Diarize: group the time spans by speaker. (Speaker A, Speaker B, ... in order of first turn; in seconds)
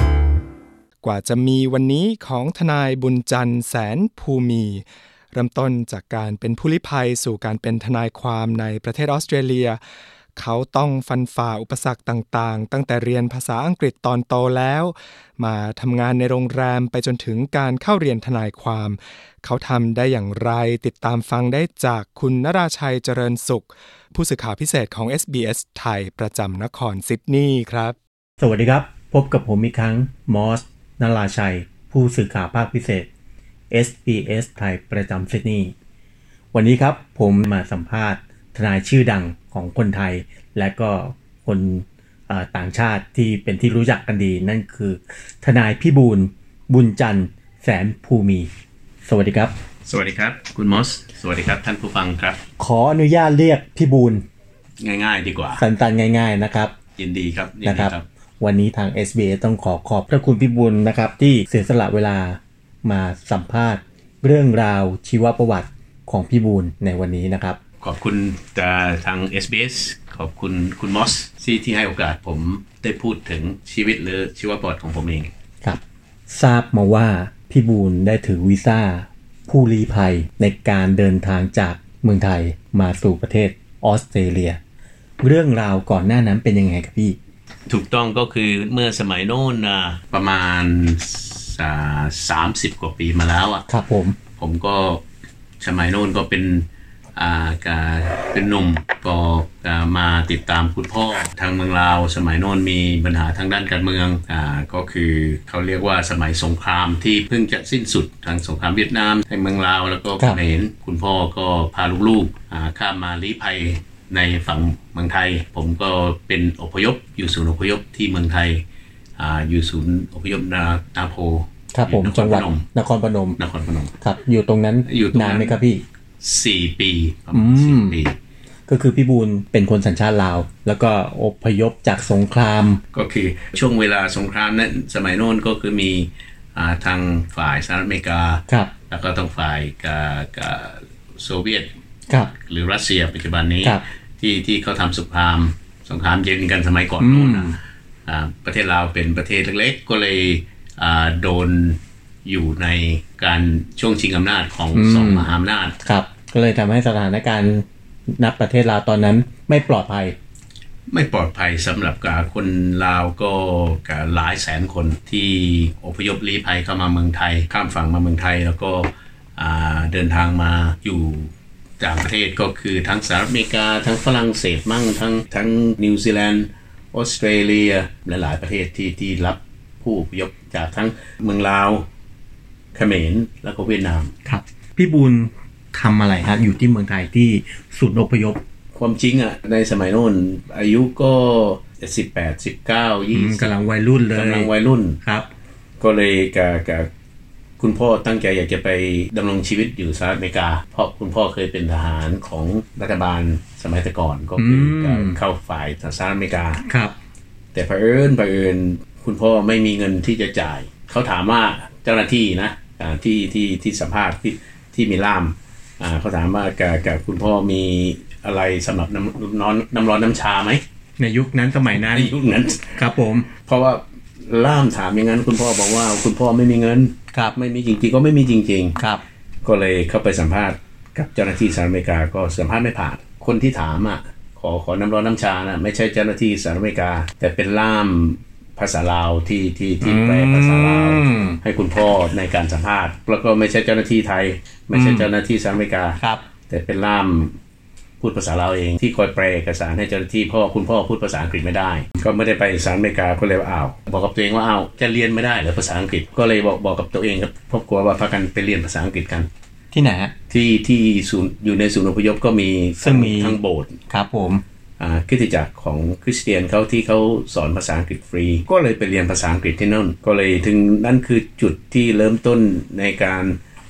Speaker A: 1.0-9.8, 10.4-28.0
Speaker B: 28.4-33.1, 33.7-35.7, 36.5-48.5, 49.0-49.5, 52.6-54.2, 55.6-56.7, 57.6-67.6, 75.6-84.6, 85.2-87.2, 93.7-94.2, 121.7-123.4, 124.0-125.8, 127.3-128.0, 128.7-132.8, 147.0-147.6, 154.8-155.3, 155.8-160.2, 184.2-188.4, 193.1-194.5, 195.0-195.3, 204.4-205.2, 206.7-206.9, 221.0-222.1, 222.7-223.3, 228.8-229.0, 239.8-241.4, 244.7-245.1, 246.0-246.3, 259.7-260.1, 262.8-263.4, 263.9-264.4
Speaker C: 49.9-52.4, 54.8-55.6, 57.0-58.1, 67.8-75.3, 87.7-93.7, 94.4-95.0, 95.6-118.6, 119.2-122.7, 123.4-124.0, 124.8-125.6, 126.2-128.2, 132.9-141.7, 142.3-155.8, 160.9-181.9, 182.7-184.1, 188.8-193.5, 194.1-195.0, 195.8-196.9, 197.6-206.6, 207.5-220.6, 221.7-222.8, 223.3-228.8, 229.4-247.4, 248.0-259.3, 260.3-263.8, 264.8-273.4